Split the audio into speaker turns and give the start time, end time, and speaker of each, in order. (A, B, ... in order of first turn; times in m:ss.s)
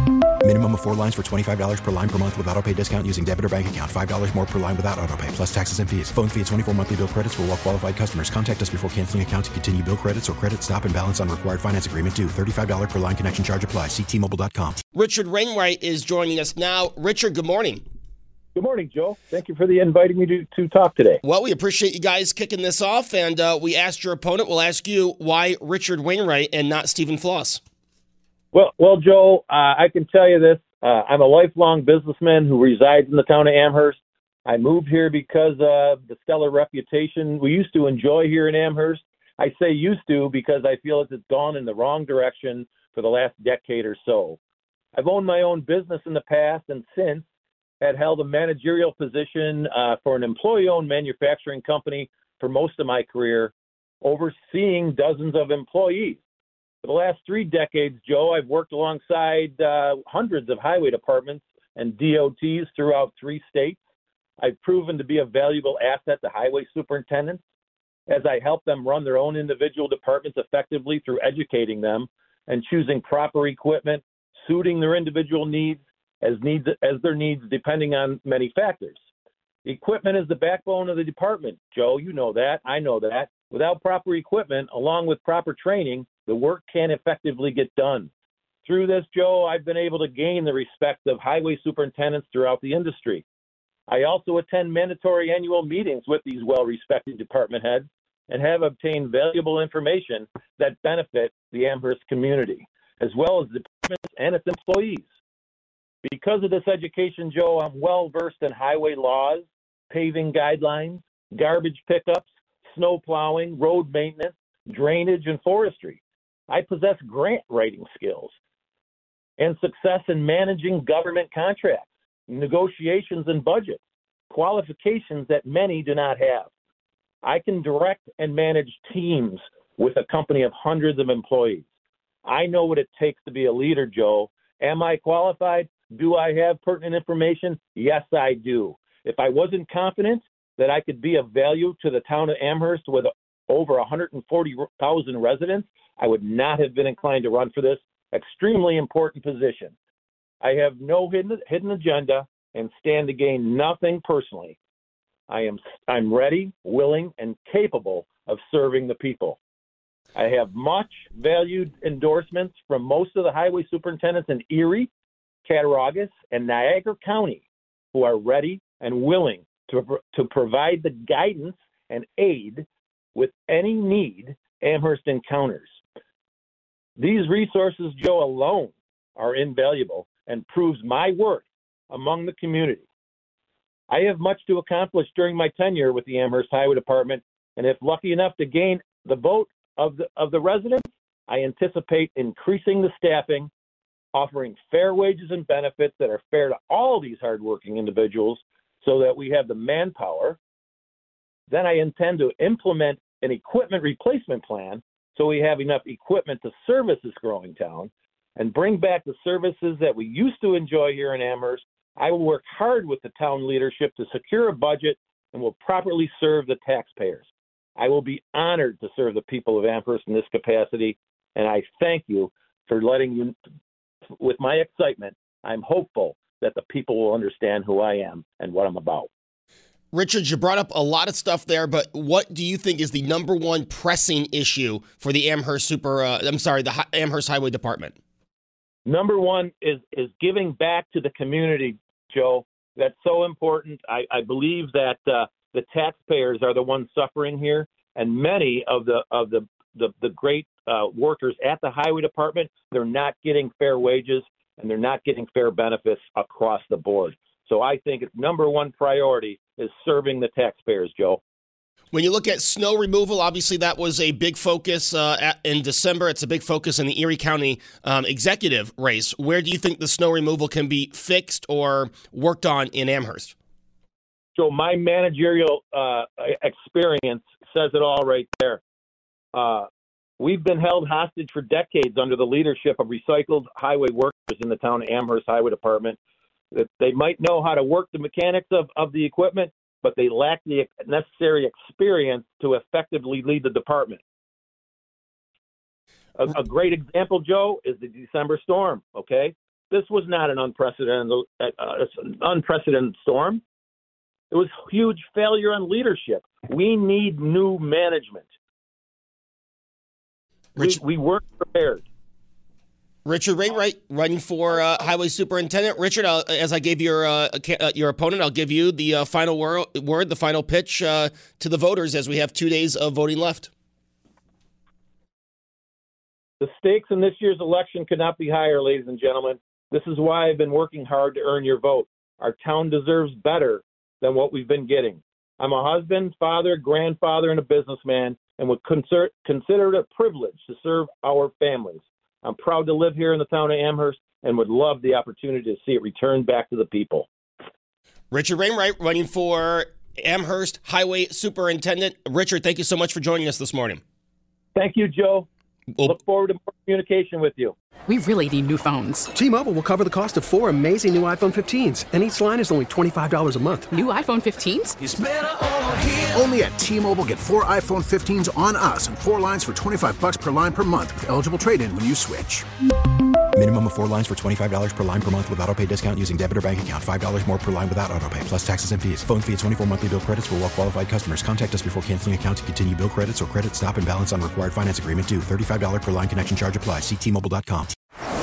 0:00.4-0:14.8 A
0:14.9-0:17.8 B
0:18.5-0:21.2 C
0:21.2-0:27.6 B
0:28.5-0:44.4 C
0:44.9-0:47.2 C
0:47.8-0:56.2 C
0:56.8-1:03.8 C
1:04.4-1:07.4 C
1:08.1-1:19.0 C
1:19.6-1:28.1 C
1:28.6-1:33.2 C
1:33.9-1:45.0 C
1:46.0-1:58.3 C
1:59.4-2:06.5 C
2:07.2-2:11.6 C
2:12.2-2:29.7 C
2:30.4-2:34.6 C
2:35.3-2:39.4 C
2:40.1-2:44.9 C
2:45.4-2:55.7 C
2:57.0-3:02.8 C
3:03.9-3:13.5 C
3:14.1-3:20.4 C
3:21.5-3:37.2 C
3:37.8-3:43.4 C
3:44.2-3:49.1 C
3:49.9-3:58.0 B
3:58.8-4:21.2 C
4:21.9-4:33.3 B
4:34.3-4:38.6 C
4:39.3-4:39.7 C
4:40.2-4:46.0 C
4:46.5-4:54.0 C
4:56.2-5:03.4 C
5:04.3-5:08.2 C
5:10.6-5:11.8 C
5:13.0-5:23.5 B
5:26.4-5:47.1 C
5:48.1-5:53.8 B
5:54.5-5:55.3 C
5:55.8-5:57.5 C
5:57.9-5:59.1 D
5:59.3-6:03.6 E
6:03.7-6:04.8 D
6:04.8-6:12.4 F
6:13.3-6:27.7 A